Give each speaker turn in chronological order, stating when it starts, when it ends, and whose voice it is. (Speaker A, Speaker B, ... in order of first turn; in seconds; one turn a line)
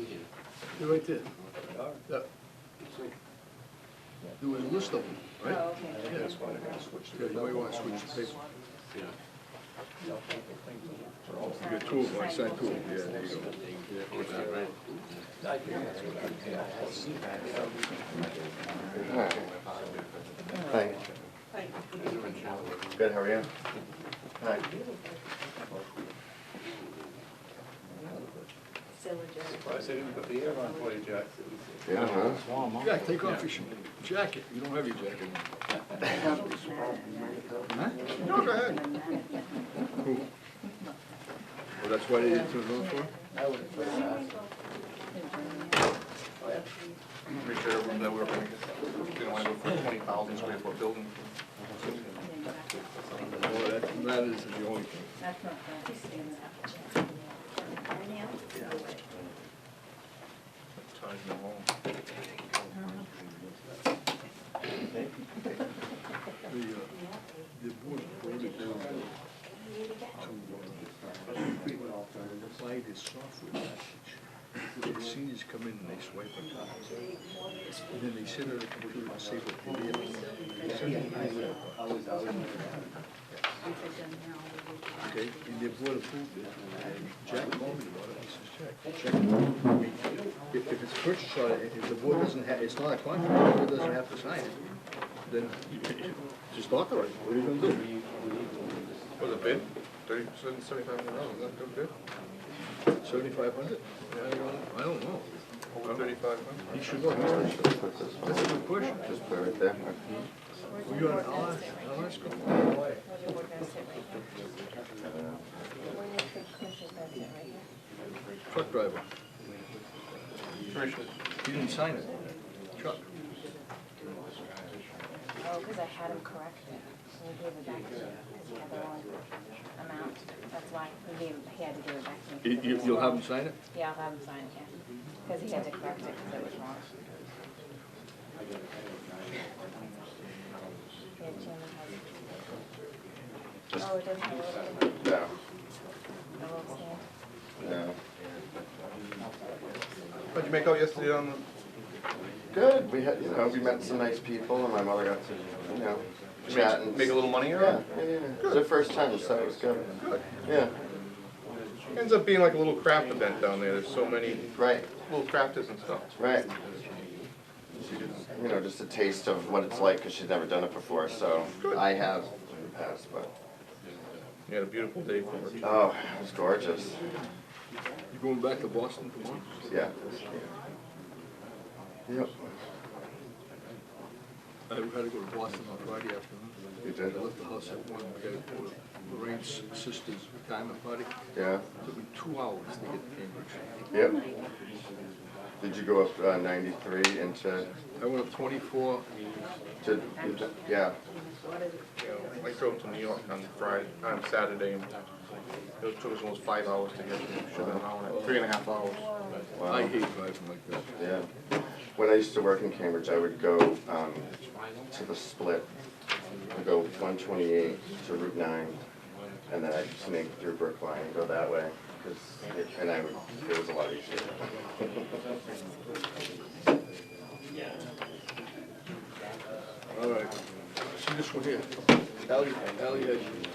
Speaker A: 0.7-1.3
Speaker A: 4.4-6.4
Speaker B: 5.4-6.2
Speaker C: 6.1-7.5
Speaker A: 7.0-8.4
Speaker A: 11.5-13.5
Speaker B: 12.2-12.7
Speaker D: 18.9-19.5
Speaker D: 20.6-21.0
Speaker C: 22.0-22.5
Speaker D: 22.9-23.5
Speaker D: 24.4-24.6
Speaker C: 29.9-30.3
Speaker D: 31.9-32.4
Speaker A: 32.8-35.5
Speaker B: 36.0-37.4
Speaker A: 37.7-38.0
Speaker B: 38.2-39.0
Speaker C: 38.2-38.8
Speaker A: 40.0-40.3
Speaker A: 41.8-43.1
Speaker B: 42.6-43.2
Speaker B: 45.1-45.8
Speaker C: 47.3-51.2
Speaker A: 53.4-55.1
Speaker B: 55.2-57.3
Speaker C: 60.8-61.7
Speaker A: 66.5-67.0
Speaker A: 67.5-69.1
Speaker A: 70.2-70.8
Speaker A: 72.4-76.9
Speaker A: 77.9-81.8
Speaker A: 85.0-94.6
Speaker A: 95.3-97.8
Speaker C: 99.2-101.9
Speaker A: 103.0-106.1
Speaker C: 105.7-106.7
Speaker A: 106.7-107.6
Speaker D: 107.1-110.0
Speaker A: 108.2-109.0
Speaker B: 110.6-112.1
Speaker A: 110.8-112.6
Speaker B: 112.9-114.2
Speaker D: 115.0-115.4
Speaker B: 115.9-117.6
Speaker A: 118.5-119.0
Speaker C: 120.7-121.1
Speaker A: 121.4-123.0
Speaker B: 125.4-129.2
Speaker B: 129.8-134.7
Speaker A: 132.4-133.6
Speaker B: 135.2-137.2
Speaker B: 141.2-142.1
Speaker B: 143.7-144.9
Speaker D: 145.0-145.3
Speaker B: 146.4-147.0
Speaker D: 147.6-147.9
Speaker C: 150.3-151.4
Speaker D: 152.5-159.9
Speaker C: 156.4-157.8
Speaker D: 160.4-160.7
Speaker C: 161.9-164.5
Speaker D: 164.6-164.9
Speaker C: 165.1-166.1
Speaker D: 166.2-166.5
Speaker D: 168.3-173.3
Speaker C: 174.5-175.7
Speaker D: 175.6-177.0
Speaker A: 178.1-179.7
Speaker D: 179.7-180.5
Speaker D: 182.1-182.5
Speaker A: 184.7-191.1
Speaker D: 186.8-187.2
Speaker D: 191.3-191.6
Speaker A: 191.8-193.6
Speaker B: 193.9-194.4
Speaker D: 195.6-197.7
Speaker A: 197.9-199.0
Speaker D: 199.8-200.9
Speaker B: 200.0-200.7
Speaker C: 202.0-204.9
Speaker C: 205.8-209.1
Speaker A: 208.0-208.4
Speaker D: 209.5-209.9
Speaker A: 209.7-210.8
Speaker D: 211.0-211.3
Speaker D: 211.9-214.3
Speaker D: 214.9-215.7
Speaker D: 216.5-218.8
Speaker D: 219.5-224.9
Speaker A: 229.9-230.3
Speaker A: 230.9-233.3